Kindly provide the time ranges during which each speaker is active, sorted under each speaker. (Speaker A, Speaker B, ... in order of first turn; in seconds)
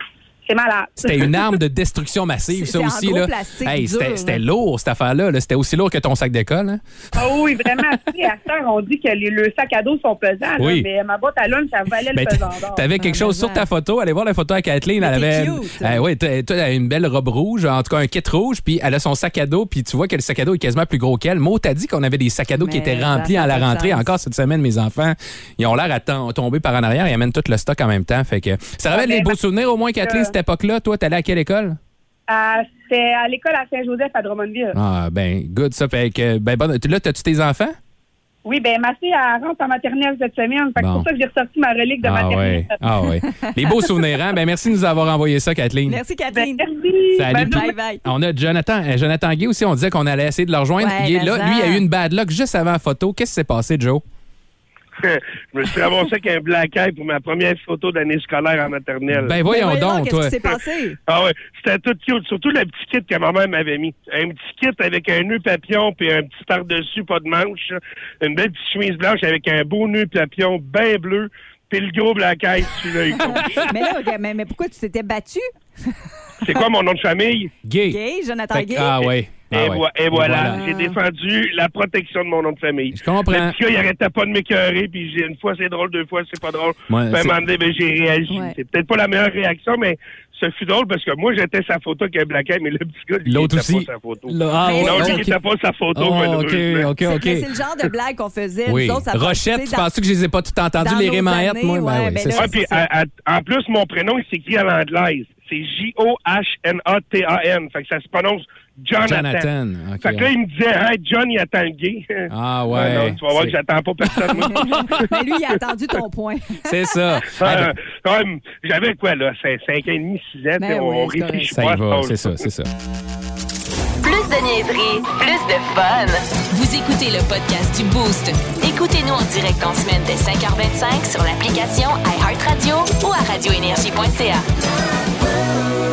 Speaker A: 0.4-1.5, 7.1-12.9, 28.9-29.3, 30.0-30.3, 32.3-34.8, 38.4-42.8, 46.3-47.7
Speaker B: 1.0-7.9, 10.6-10.9, 12.0-31.8, 34.7-37.8, 40.8-41.1, 42.0-46.0, 47.1-54.0, 59.1-60.3, 73.3-73.7, 77.6-78.0, 78.5-80.7, 82.9-83.5, 86.9-87.4, 93.3-95.3, 95.9-97.9, 98.7-102.5, 109.0-110.3, 112.3-115.0, 116.6-117.7, 121.5-122.7
Speaker C: 2.5-4.4, 12.9-13.7, 15.0-16.0, 22.6-24.1, 45.9-46.7, 47.3-48.0, 50.8-51.8, 59.4-61.0, 73.2-75.9, 77.9-79.1, 80.4-80.9, 88.3-88.5, 94.6-95.3, 97.0-99.9, 100.8-102.8, 114.4-116.7, 120.6-121.5
Speaker D: 55.0-59.4, 60.4-73.7, 76.4-77.5, 79.5-96.9, 102.3-109.5, 110.0-115.1, 117.3-122.4
Speaker E: 124.0-134.4